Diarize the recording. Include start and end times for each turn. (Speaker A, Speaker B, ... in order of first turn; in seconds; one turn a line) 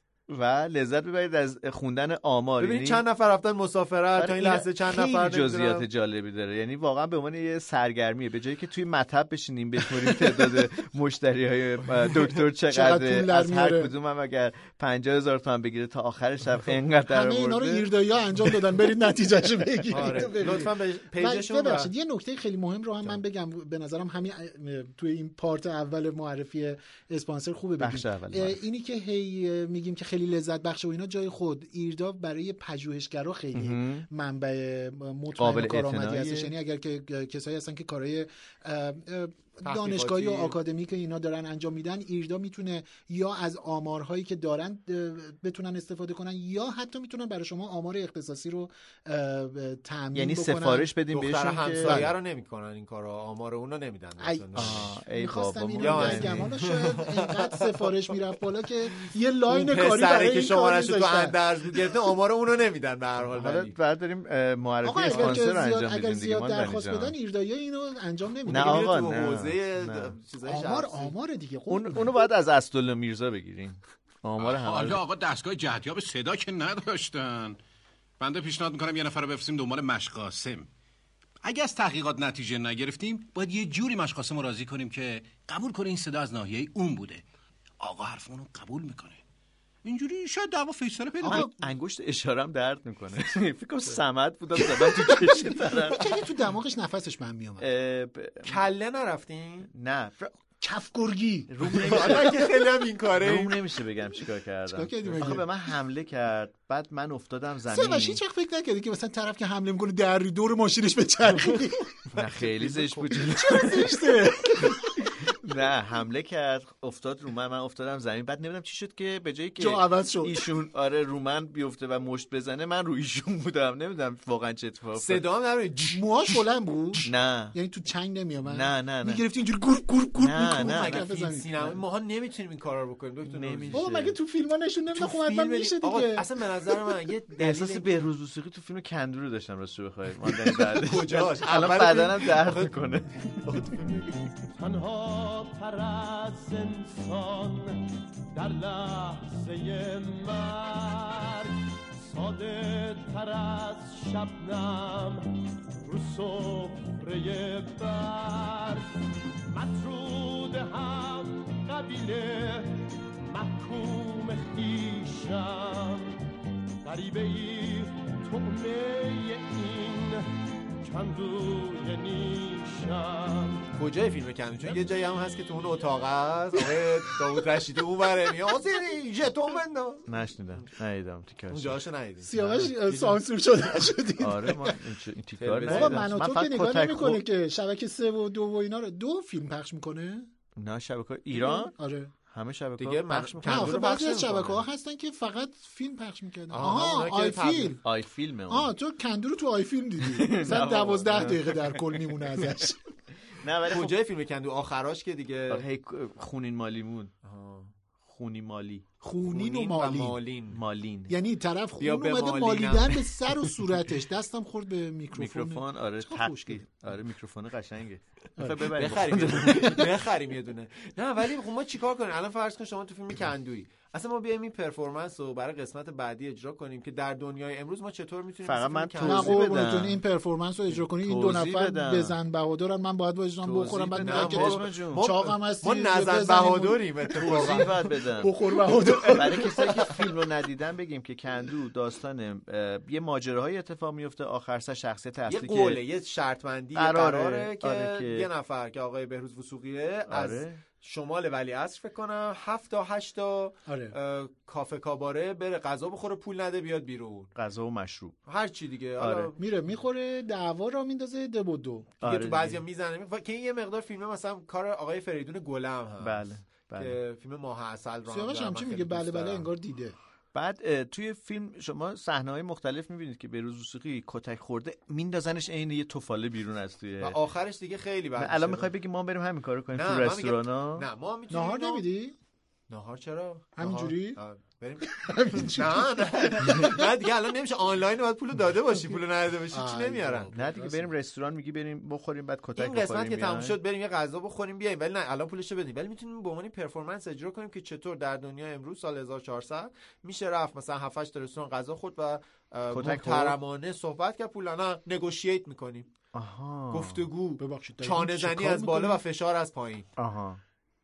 Speaker A: 0.3-3.0
Speaker B: 2.6-5.8
Speaker A: 4.2-17.9
Speaker C: 12.7-13.9
Speaker C: 17.1-50.9
Speaker B: 19.9-21.9
Speaker A: 27.8-28.6
Speaker A: 33.5-34.1
Speaker A: 35.4-36.5
Speaker B: 39.6-40.5
Speaker A: 50.1-52.1
Speaker B: 51.1-54.9
Speaker C: 51.8-52.1
Speaker C: 54.2-61.4
Speaker A: 54.5-56.5
Speaker B: 55.8-58.1
Speaker B: 59.5-63.8
Speaker A: 63.3-67.1
Speaker C: 64.8-68.9
Speaker B: 65.1-65.4
Speaker A: 68.5-70.1
Speaker B: 68.5-71.1
Speaker C: 70.5-72.1
Speaker A: 71.7-75.0
Speaker D: 74.4-77.6
Speaker D: 78.2-80.7
Speaker D: 81.4-87.2
Speaker D: 87.8-89.2
Speaker D: 89.8-91.5
Speaker C: 91.2-91.5
Speaker A: 91.2-96.1
Speaker C: 94.9-97.7
Speaker A: 97.6-98.6
Speaker B: 98.5-99.7
Speaker A: 99.7-100.4
Speaker C: 100.6-102.2
Speaker A: 101.5-102.5
Speaker B: 101.8-103.6
Speaker A: 103.2-108.2
Speaker C: 104.7-105.4
Speaker C: 107.7-115.1
Speaker A: 112.1-125.2
Speaker C: 119.6-120.4
Speaker B: 124.9-126.0
Speaker C: 125.9-131.8
Speaker A: 127.0-127.6
Speaker A: 128.4-129.2
Speaker A: 130.2-131.1
Speaker B: 130.5-133.9
Speaker A: 133.2-134.2
Speaker C: 133.7-136.2
Speaker B: 134.9-137.9
Speaker A: 137.4-143.8
Speaker B: 140.5-142.8
Speaker B: 143.4-144.1
Speaker E: 144.6-147.8
Speaker E: 148.3-155.3
Speaker E: 155.8-158.9
Speaker E: 159.5-166.2
Speaker E: 166.8-170.3
Speaker E: 170.8-173.7
Speaker B: 173.8-180.1
Speaker A: 180.1-181.8
Speaker B: 181.5-183.2
Speaker C: 182.2-184.7
Speaker A: 182.4-182.7
Speaker A: 184.2-187.2
Speaker B: 185.4-186.1
Speaker C: 185.7-190.3
Speaker A: 190.6-191.7
Speaker C: 191.3-192.1
Speaker A: 192.3-193.9
Speaker B: 192.8-194.6
Speaker C: 193.4-197.8
Speaker B: 196.5-197.8
Speaker A: 197.8-198.7
Speaker C: 198.5-202.8
Speaker A: 200.0-202.5
Speaker A: 203.3-203.9
Speaker B: 203.7-205.6
Speaker A: 205.5-207.1
Speaker B: 207.2-207.7
Speaker A: 208.0-208.8
Speaker C: 209.0-210.2
Speaker B: 209.2-210.6
Speaker A: 210.5-211.1
Speaker C: 211.1-216.6
Speaker B: 211.8-213.1
Speaker A: 215.1-219.9
Speaker C: 218.4-218.7
Speaker B: 218.7-229.5
Speaker A: 228.4-230.0
Speaker C: 229.0-239.9
Speaker A: 230.7-232.2
Speaker A: 233.4-235.1
Speaker B: 234.0-237.8
Speaker A: 237.2-238.3
Speaker B: 238.7-239.8
Speaker A: 239.0-245.8
Speaker B: 245.3-257.3
Speaker A: 246.7-248.3
Speaker A: 250.1-250.6
Speaker C: 253.7-253.9
Speaker A: 257.3-258.2
Speaker B: 258.3-259.4
Speaker A: 259.0-259.3
Speaker C: 259.4-261.9
Speaker A: 262.0-262.6
Speaker B: 262.0-269.5
Speaker A: 266.0-267.0
Speaker C: 268.1-269.9
Speaker A: 270.3-277.2
Speaker B: 277.0-278.7
Speaker A: 278.2-280.9
Speaker B: 279.7-281.8
Speaker C: 281.3-282.1
Speaker B: 282.7-290.3
Speaker C: 283.6-284.2
Speaker C: 284.8-286.8
Speaker C: 289.5-290.9
Speaker A: 290.3-293.6
Speaker B: 292.6-305.9
Speaker A: 302.7-303.4
Speaker A: 306.1-307.1
Speaker B: 306.7-309.9
Speaker C: 307.4-309.0
Speaker A: 310.0-310.4